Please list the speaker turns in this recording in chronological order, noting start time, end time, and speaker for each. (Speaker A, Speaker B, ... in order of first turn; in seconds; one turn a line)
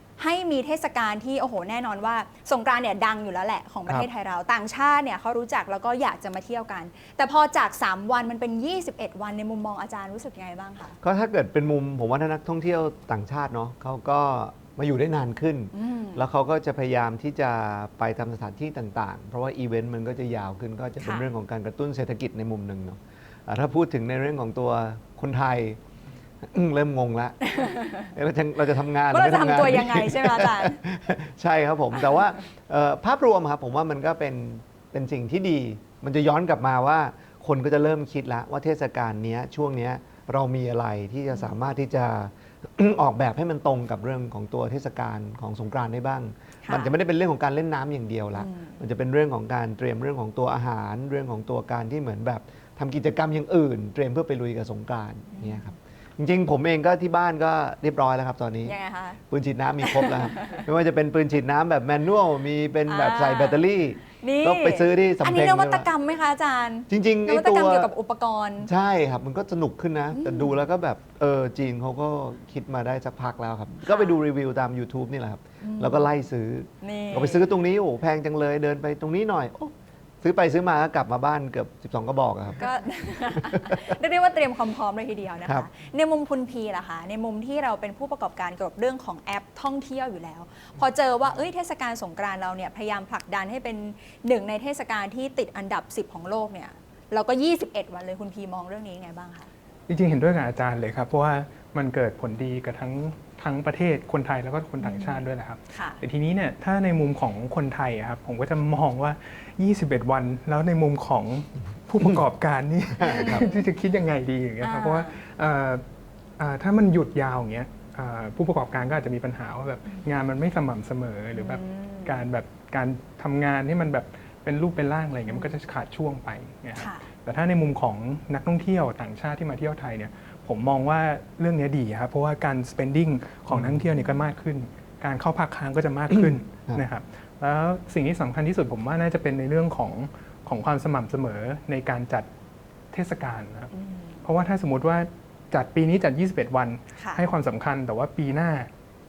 Speaker A: 0.2-11.0
Speaker B: 11.0-25.8
Speaker A: 15.7-16.2
Speaker A: 21.0-21.3
Speaker B: 26.4-58.8
Speaker A: 27.5-28.1
Speaker A: 29.1-30.8
Speaker A: 46.6-46.9
Speaker A: 48.4-48.8
Speaker A: 55.3-55.7
Speaker A: 58.6-59.2
Speaker B: 59.3-65.9
Speaker A: 59.8-60.7
Speaker A: 62.9-68.7
Speaker B: 66.9-67.9
Speaker B: 68.6-82.7
Speaker A: 70.1-70.5
Speaker A: 73.8-74.2
Speaker A: 75.6-76.1
Speaker A: 76.8-77.6
Speaker A: 82.6-99.5
Speaker C: 99.9-115.8
Speaker A: 104.8-106.0
Speaker B: 113.0-113.5
Speaker A: 113.0-113.7
Speaker A: 114.6-115.2
Speaker C: 116.4-142.3
Speaker A: 121.3-122.3
Speaker A: 125.3-125.6
Speaker A: 126.8-127.1
Speaker B: 133.5-133.9
Speaker B: 136.1-136.8
Speaker C: 142.9-143.7
Speaker A: 143.7-144.3
Speaker C: 144.2-148.7
Speaker A: 147.0-147.2